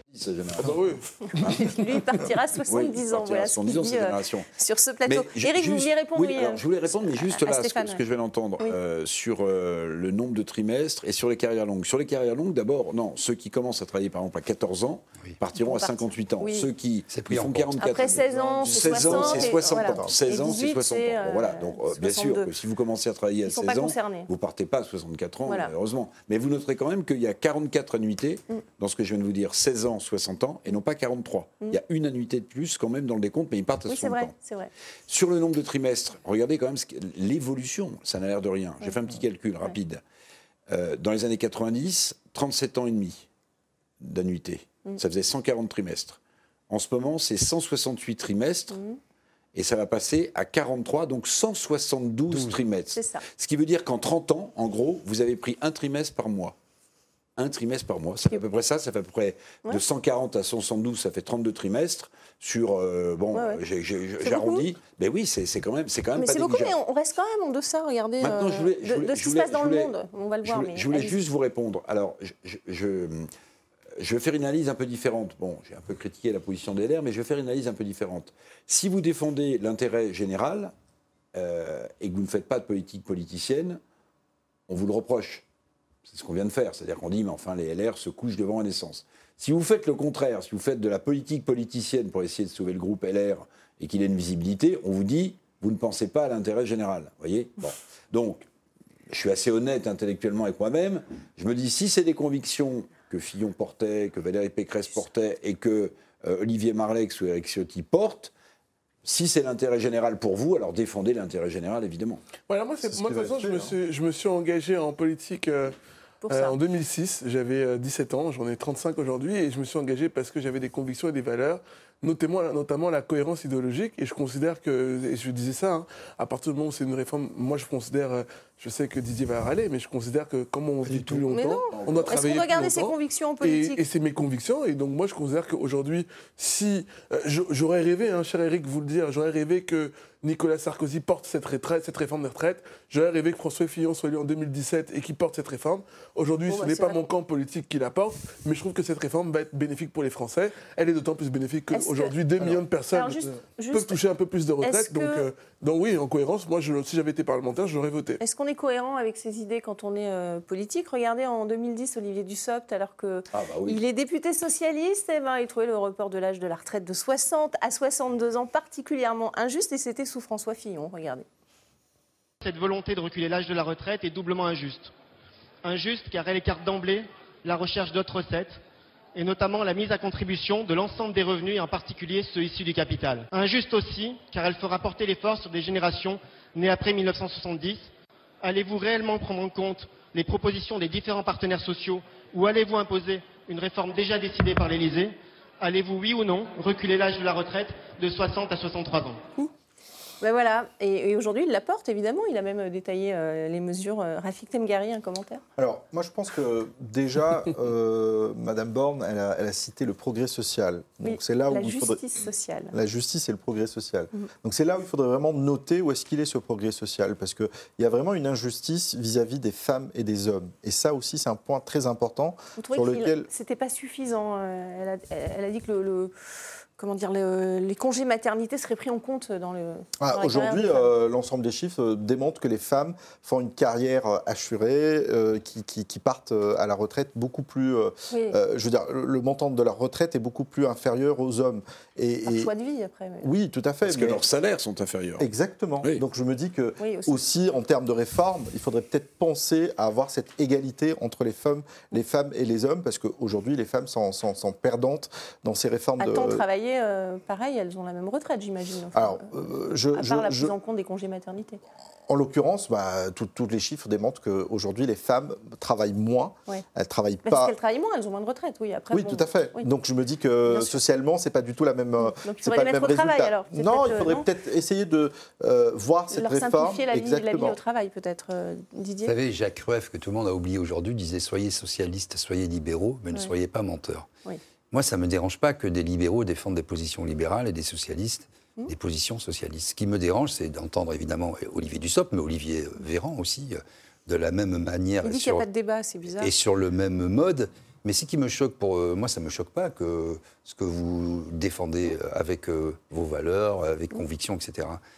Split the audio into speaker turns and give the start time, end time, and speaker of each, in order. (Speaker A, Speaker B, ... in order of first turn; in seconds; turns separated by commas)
Speaker A: 0.1-0.9, Speaker B: 0.6-2.2, Speaker C: 1.3-8.0, Speaker A: 2.7-4.5, Speaker A: 5.0-34.3, Speaker C: 15.6-16.7, Speaker D: 17.1-17.7, Speaker C: 17.8-22.5, Speaker E: 18.7-20.1, Speaker C: 23.4-24.3, Speaker C: 25.4-25.7, Speaker C: 33.9-34.7, Speaker A: 35.1-40.0, Speaker A: 40.7-43.3, Speaker A: 44.0-48.8, Speaker C: 48.7-49.0, Speaker A: 49.5-56.5, Speaker D: 52.3-52.6, Speaker C: 52.9-53.2, Speaker A: 57.4-66.7, Speaker C: 63.3-63.6, Speaker C: 64.2-64.7, Speaker C: 66.1-71.2, Speaker A: 68.2-69.9, Speaker A: 70.4-73.3, Speaker A: 74.0-80.7, Speaker A: 81.3-83.8, Speaker A: 84.7-85.4, Speaker A: 86.0-98.5, Speaker A: 99.1-108.3, Speaker A: 109.0-112.2, Speaker B: 112.5-115.7, Speaker E: 112.8-113.7, Speaker C: 116.2-116.6, Speaker B: 116.3-158.2, Speaker D: 130.8-131.2, Speaker C: 131.3-133.8, Speaker A: 131.7-132.1, Speaker C: 146.5-147.0, Speaker C: 151.7-152.1, Speaker C: 152.9-154.0, Speaker C: 154.6-155.2, Speaker C: 158.2-171.2, Speaker A: 163.3-163.8, Speaker F: 172.4-174.9, Speaker F: 175.6-178.6, Speaker F: 179.1-187.9, Speaker F: 188.4-199.3, Speaker C: 200.2-205.4, Speaker E: 205.6-212.0, Speaker C: 211.0-212.7, Speaker E: 212.7-223.3, Speaker C: 222.6-226.1, Speaker C: 226.8-230.9, Speaker E: 230.0-242.5, Speaker C: 238.1-238.3, Speaker C: 242.2-243.3, Speaker E: 243.2-244.2, Speaker A: 243.8-245.2, Speaker E: 245.2-256.4, Speaker C: 246.8-247.2, Speaker C: 256.0-259.3, Speaker E: 258.9-260.5, Speaker C: 259.9-261.6, Speaker E: 262.1-267.5, Speaker C: 267.2-269.7, Speaker E: 268.9-277.6, Speaker C: 270.5-270.8, Speaker C: 272.0-274.2, Speaker C: 276.1-279.1, Speaker D: 279.1-284.1, Speaker D: 284.7-295.4, Speaker C: 295.0-296.3, Speaker D: 296.2-304.8